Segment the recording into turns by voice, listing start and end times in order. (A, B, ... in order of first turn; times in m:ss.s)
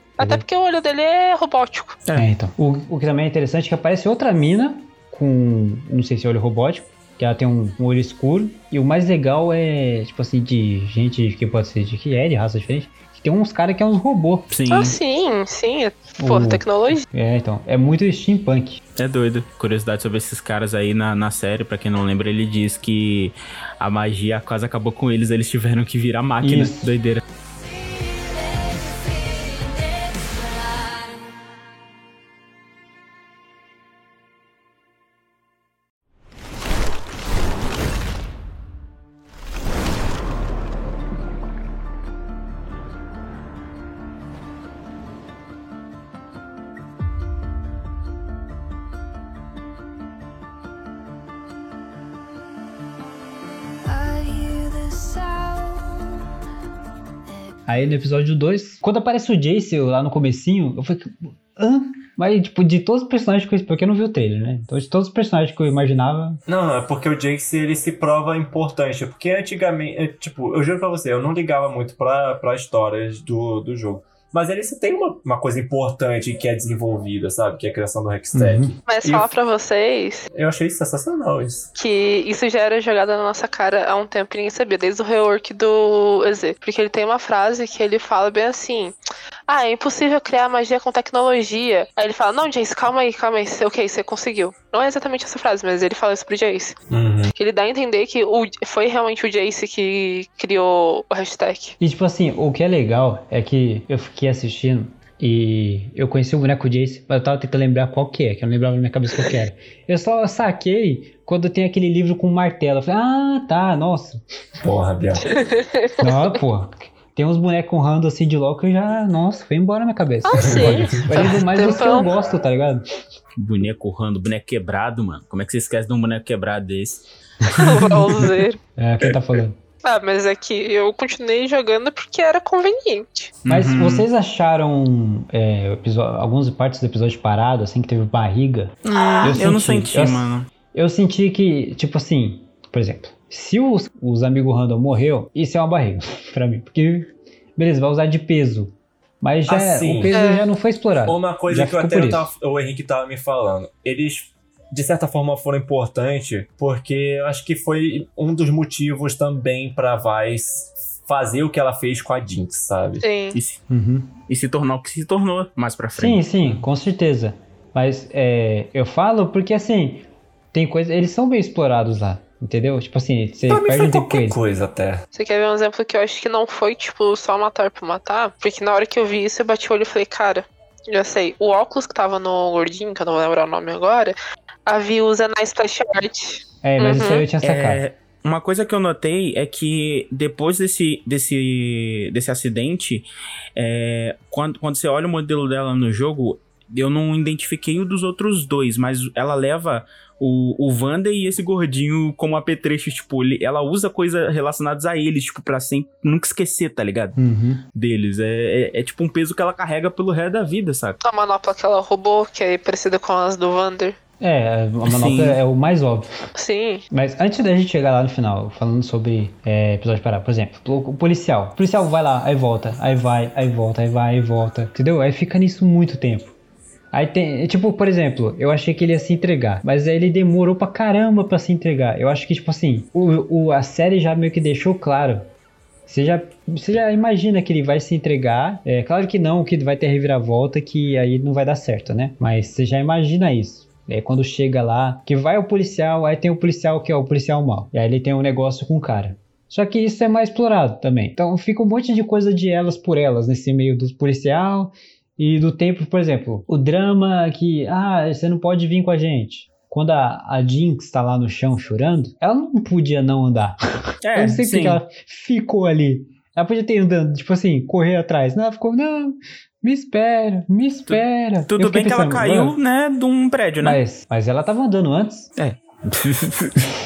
0:00.2-0:02.0 A
0:00.2-0:00.4 B
0:02.1-0:14.5 B
0:14.5-0:15.0 C
0:14.7-0:17.0 A
0:16.2-0:18.8 B
0:19.0-0:27.2 C
0:26.4-0:26.9 B
0:27.5-0:31.2 D
0:53.8-0:56.2 D
0:57.2-0:57.6 D
0:57.7-1:06.4 B
1:06.5-1:19.3 E
1:18.3-1:18.8 B
1:18.9-1:20.3 A
1:20.3-1:21.7 E
1:21.8-1:28.9 A
1:29.5-1:36.8 A
1:36.9-1:37.3 E
1:37.3-1:41.8 A
1:41.8-1:54.2 B
1:54.6-1:55.4 E
1:55.3-1:56.1 A
1:56.0-2:02.8 B
2:00.2-2:02.1 A
2:00.4-2:01.2 E
2:03.4-2:07.0 C
2:07.4-2:07.9 B
2:07.5-2:08.6 A
2:08.8-2:09.6 B
2:09.0-2:09.4 E
2:09.8-2:13.3 A
2:13.4-2:14.1 C
2:13.5-2:32.3 B
2:18.8-2:20.5 C
2:18.9-2:19.3 A
2:29.5-2:30.2 E
2:30.1-2:30.5 A
2:31.0-2:43.0 E
2:43.0-2:43.4 A
2:43.3-2:43.6 C
2:43.7-2:44.2 B
2:44.3-2:46.6 C
2:45.9-2:54.4 B
2:53.5-2:55.0 E
2:55.1-3:07.2 A
3:06.6-3:07.8 B
3:07.4-3:27.2 C
3:27.2-3:27.6 B
3:27.7-3:31.0 C
3:31.0-3:34.0 A
3:34.2-3:36.1 B
3:34.8-3:35.4 C
3:36.3-3:36.8 A
3:36.9-3:46.3 B
3:46.9-3:55.3 B
3:55.9-4:32.6 B
4:24.0-4:24.8 C
4:30.9-4:33.8 C
4:33.6-4:35.3 B
4:35.4-4:36.6 C